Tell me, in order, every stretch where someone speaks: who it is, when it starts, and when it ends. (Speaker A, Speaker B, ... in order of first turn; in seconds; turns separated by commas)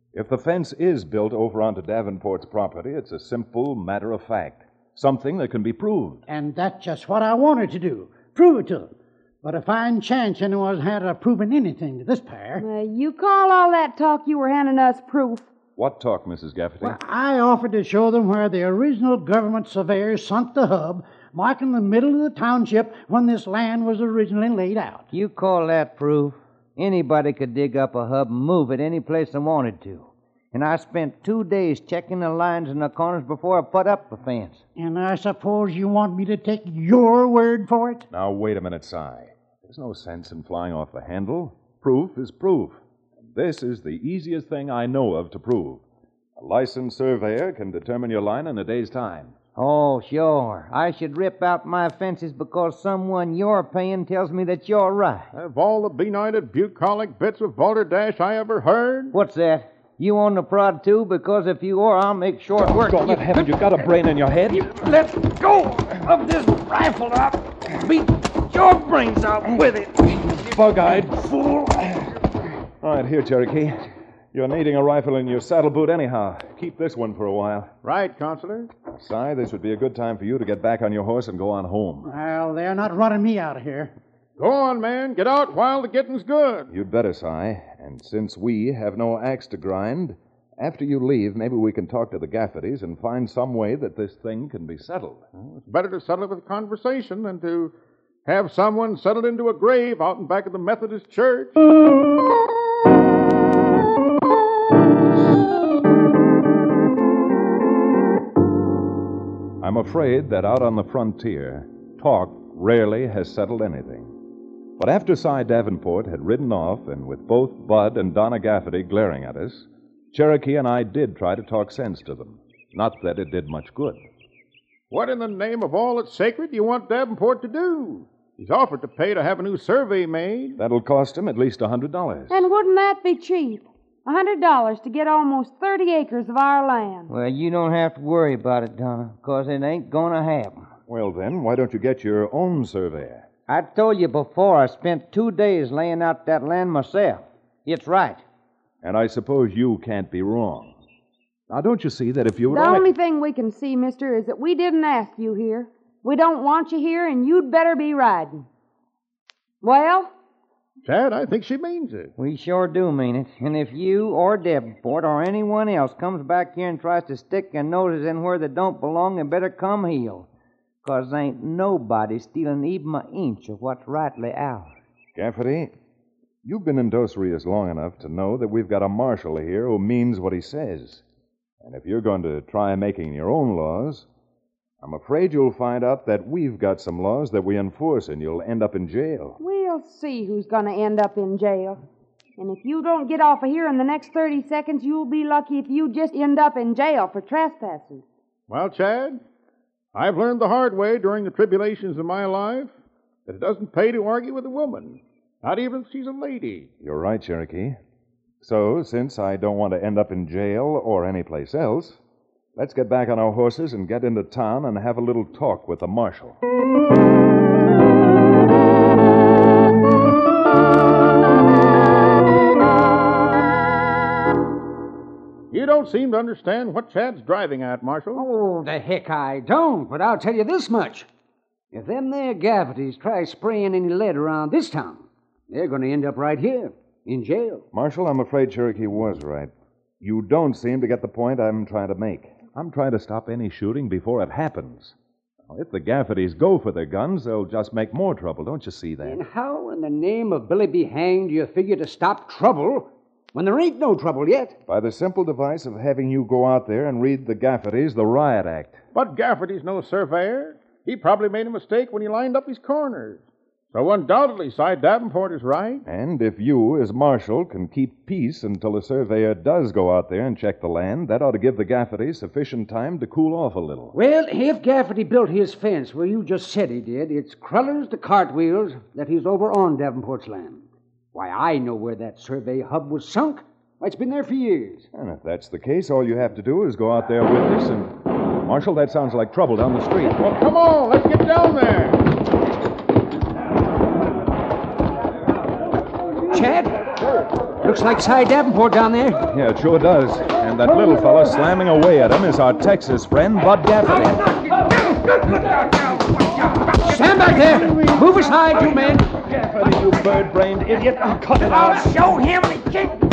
Speaker A: 0.1-6.2, Speaker B: 6.3-12.6, Speaker C: 12.6-15.5, Speaker A: 15.8-17.0, Speaker B: 16.8-25.1, Speaker D: 25.1-34.6, Speaker B: 34.8-38.0, Speaker A: 38.1-45.8, Speaker A: 46.4-49.3, Speaker D: 49.5-55.3, Speaker E: 55.3-59.1, Speaker D: 59.1-62.9, Speaker A: 62.6-64.7, Speaker B: 64.8-65.3, Speaker B: 66.0-67.1, Speaker F: 68.6-69.4, Speaker B: 69.5-69.9, Speaker A: 70.5-71.6, Speaker A: 72.8-77.7, Speaker E: 77.8-78.7, Speaker A: 78.9-82.1, Speaker B: 82.0-83.9, Speaker E: 84.4-86.7, Speaker A: 86.7-95.2, Speaker E: 95.4-97.7, Speaker E: 98.2-101.6, Speaker A: 109.6-114.1, Speaker A: 114.8-124.0, Speaker E: 124.9-130.6, Speaker A: 130.6-132.4, Speaker C: 132.3-137.1, Speaker D: 137.1-140.7, Speaker A: 140.9-143.3, Speaker D: 143.5-148.2, Speaker A: 148.8-150.8, Speaker A: 151.5-152.9, Speaker C: 152.5-158.4, Speaker C: 159.6-160.1, Speaker E: 160.8-162.1, Speaker D: 162.2-170.3, Speaker D: 170.8-174.7, Speaker A: 175.2-175.7, Speaker A: 176.4-181.0, Speaker A: 181.6-184.1, Speaker A: 184.8-189.4, Speaker C: 189.4-191.8, Speaker C: 192.4-198.0, Speaker E: 198.5-199.2, Speaker E: 199.9-202.7, Speaker E: 203.2-206.7, Speaker A: 206.8-207.8, Speaker A: 208.4-212.0, Speaker A: 212.6-216.4, Speaker E: 225.5-228.2, Speaker F: 228.1-231.1, Speaker F: 231.7-237.6, Speaker A: 237.7-244.9, Speaker A: 245.5-249.2, Speaker F: 249.0-254.6, Speaker A: 254.7-258.8, Speaker E: 258.9-265.8, Speaker A: 265.9-273.9, Speaker F: 273.9-284.9, Speaker A: 284.9-290.1, Speaker E: 290.2-292.0, Speaker F: 296.3-296.9, Speaker F: 297.6-299.2, Speaker A: 299.3-304.4, Speaker F: 303.9-305.7, Speaker F: 306.8-309.1, Speaker B: 307.7-308.0, Speaker A: 309.2-311.9, Speaker F: 311.4-313.0